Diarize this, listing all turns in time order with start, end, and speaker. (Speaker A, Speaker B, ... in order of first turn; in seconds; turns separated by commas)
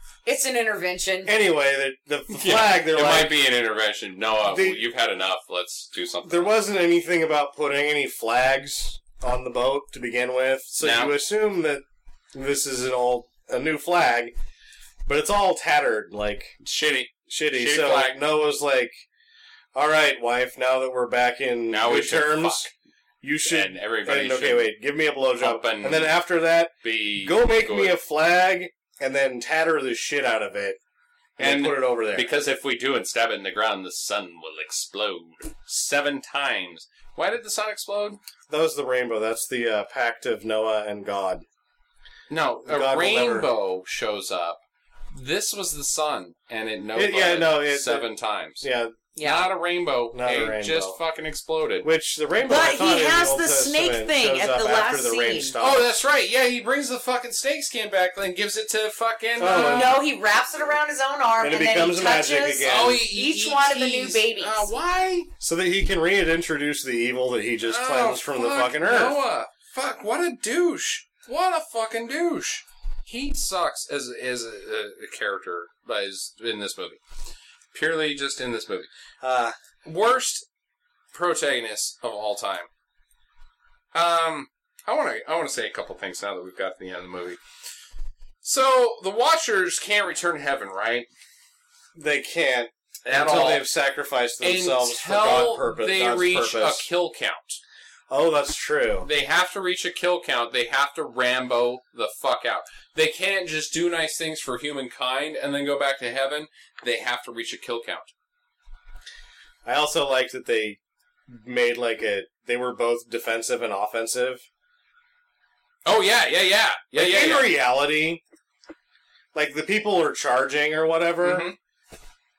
Speaker A: 0.2-1.3, Speaker B: 1.3-3.3, Speaker C: 2.3-6.5, Speaker B: 4.5-4.8, Speaker B: 6.2-14.3, Speaker C: 10.8-11.1, Speaker B: 15.1-16.6, Speaker C: 16.6-18.2, Speaker B: 17.3-19.0, Speaker B: 19.7-22.7, Speaker C: 21.7-22.7, Speaker B: 23.2-30.8, Speaker C: 23.4-24.8, Speaker C: 25.4-26.2, Speaker C: 26.8-28.0, Speaker B: 31.4-32.3, Speaker C: 31.4-38.2, Speaker B: 38.5-41.5, Speaker C: 42.3-44.6, Speaker B: 42.6-43.5, Speaker C: 45.1-48.6, Speaker B: 46.9-48.1, Speaker B: 48.6-49.0, Speaker A: 49.2-49.5, Speaker C: 49.2-51.9, Speaker B: 50.1-51.0, Speaker B: 51.8-56.0, Speaker A: 52.4-55.5, Speaker C: 55.6-60.0, Speaker B: 59.4-60.0, Speaker A: 59.5-64.7, Speaker B: 61.4-63.0, Speaker C: 62.6-65.3, Speaker B: 65.4-69.2, Speaker C: 67.7-77.0, Speaker C: 77.7-78.9, Speaker B: 79.2-79.5, Speaker C: 79.8-80.5, Speaker C: 81.1-82.7, Speaker C: 83.9-87.4, Speaker C: 88.4-91.1, Speaker B: 92.0-96.9, Speaker C: 93.0-93.7, Speaker C: 94.4-97.6, Speaker B: 98.1-99.1, Speaker C: 99.0-108.1, Speaker B: 109.7-114.5, Speaker C: 115.8-117.5, Speaker B: 116.9-118.2, Speaker B: 119.3-121.5, Speaker C: 121.2-121.6